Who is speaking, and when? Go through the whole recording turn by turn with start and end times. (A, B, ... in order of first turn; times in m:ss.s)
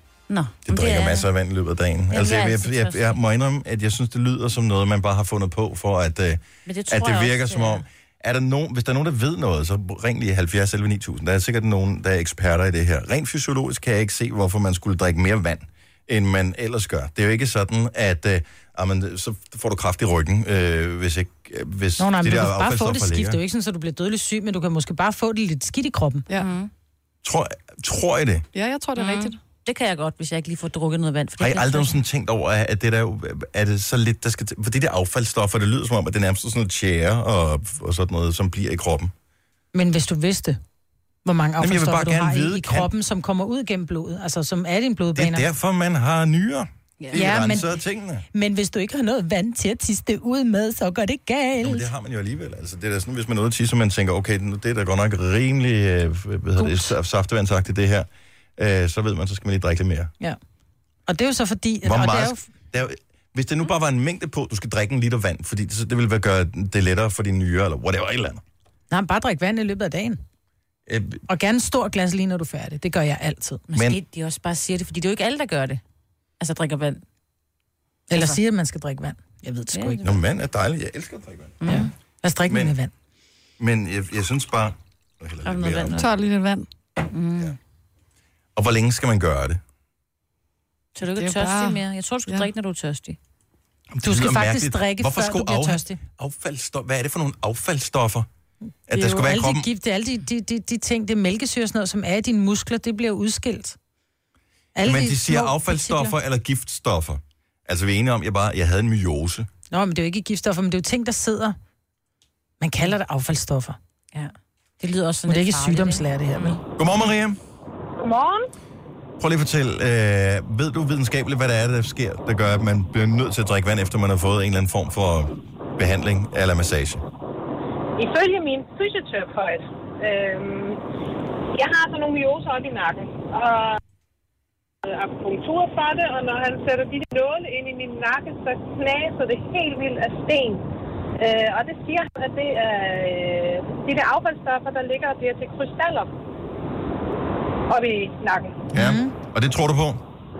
0:00.3-0:01.3 A
0:00.6-0:23.4 B
0:02.1-0:03.2 A
0:06.6-0:07.8 A
0:22.0-0:26.2 C
0:26.3-0:26.7 A
0:27.2-0:28.4 B
0:28.5-0:29.4 D
0:29.0-0:32.0 A
0:31.4-0:39.1 B
0:39.7-0:40.6 C
0:41.2-0:45.5 C
0:41.6-0:42.9 B
0:45.1-0:48.2 B
0:47.1-0:47.8 C
0:48.3-0:51.9 C
0:51.6-1:00.1 B
0:56.6-0:56.9 C
1:01.1-1:02.4 C
1:01.8-1:08.4 B
1:08.9-1:10.2 C
1:10.9-1:11.2 B
1:11.3-1:13.6 C
1:13.7-1:15.8 A
1:16.4-1:17.0 A
1:18.1-1:20.0 C
1:19.7-1:20.2 A
1:20.0-1:21.6 B
1:21.6-1:21.9 A
1:21.7-1:22.9 C
1:22.5-1:22.7 B
1:23.6-1:26.0 B
1:25.4-1:26.1 A
1:26.0-1:26.7 D
1:27.1-1:27.6 A
1:28.6-1:29.6 B
1:31.0-1:33.2 A
1:31.2-1:32.5 D
1:33.9-1:38.3 B
1:34.0-1:36.0 C
1:38.9-1:39.7 B
1:38.9-1:43.8 C
1:44.7-1:46.1 C
1:44.8-1:49.5 B
1:49.7-1:51.6 C
1:52.6-1:53.8 C
1:54.1-1:56.6 A
1:55.3-1:56.6 C
1:56.8-1:57.4 B
1:58.0-1:58.5 E
1:59.2-2:07.0 B
2:08.0-2:10.8 E
2:11.5-2:13.8 E
2:14.8-2:20.7 E
2:21.2-2:26.1 E
2:27.7-2:28.6 E
2:28.7-2:29.1 C
2:28.7-2:30.0 B